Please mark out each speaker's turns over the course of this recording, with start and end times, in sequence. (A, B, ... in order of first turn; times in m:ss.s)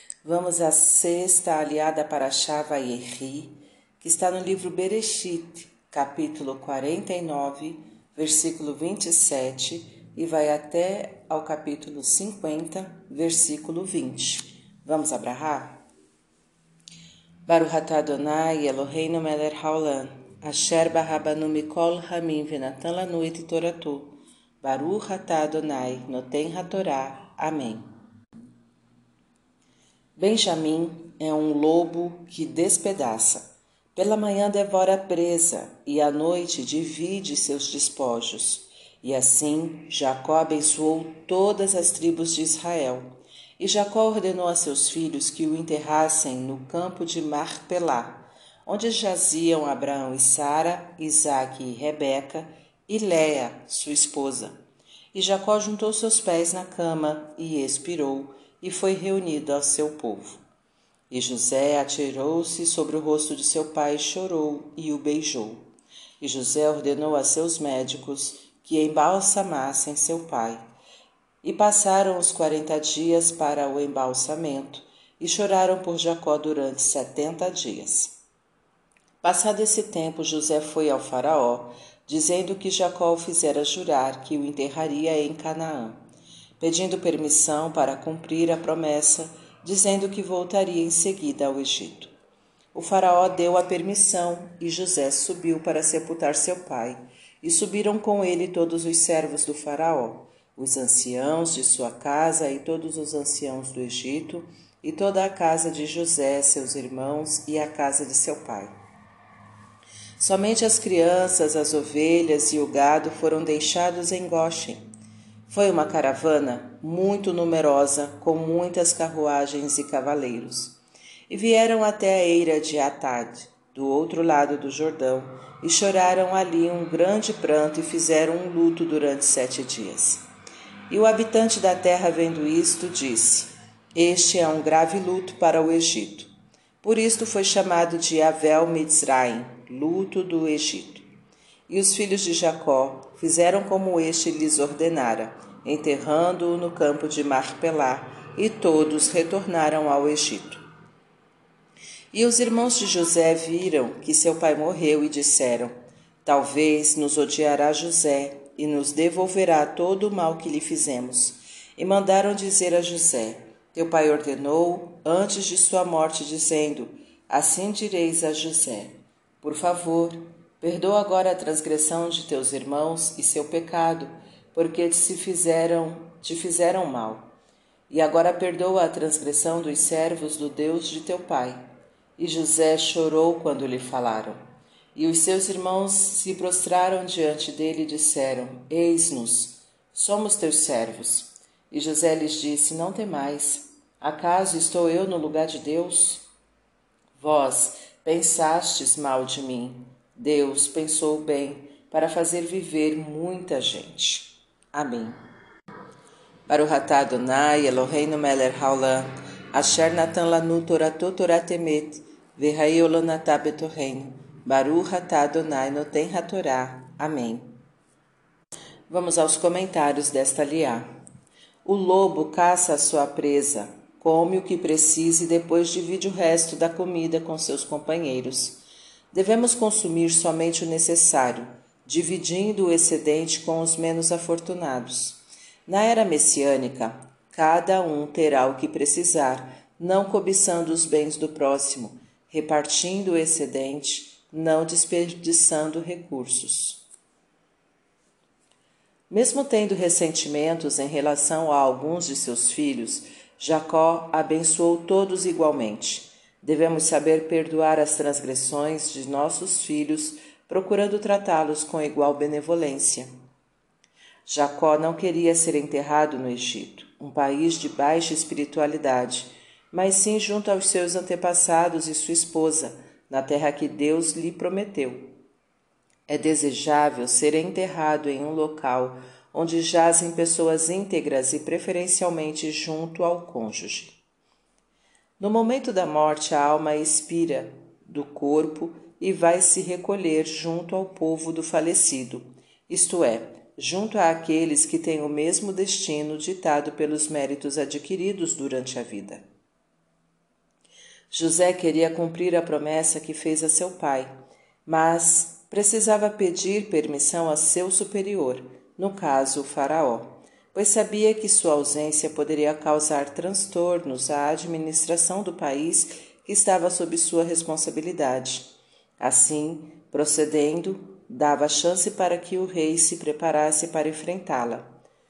0:00.2-0:15.8 A
0:17.5-0:27.8 A
0:30.2-0:33.4 A
0:33.9-0:54.6 A
0:55.1-1:00.4 A
1:01.1-1:05.6 A
1:06.2-1:10.6 A
1:11.4-1:18.1 A
1:19.2-1:26.0 A
1:26.6-1:32.1 A
1:32.7-1:48.7 A
1:50.2-1:54.8 A
1:55.5-2:00.8 A
2:01.3-2:10.2 A
2:10.9-2:16.3 A
2:16.8-2:21.0 A
2:21.7-2:30.6 A
2:32.1-2:35.7 A
2:36.2-2:48.9 A
2:49.4-2:57.3 A
2:57.9-3:04.4 A
3:04.9-3:16.2 A
3:17.2-3:25.2 A
3:26.5-3:37.5 A
3:38.9-3:40.8 A
3:41.6-3:48.6 A
3:49.1-4:06.8 A
4:09.1-4:23.1 A
4:24.2-4:35.1 A
4:36.1-4:44.0 A
4:45.2-4:59.2 A
5:01.1-5:04.1 A
5:04.6-5:24.7 A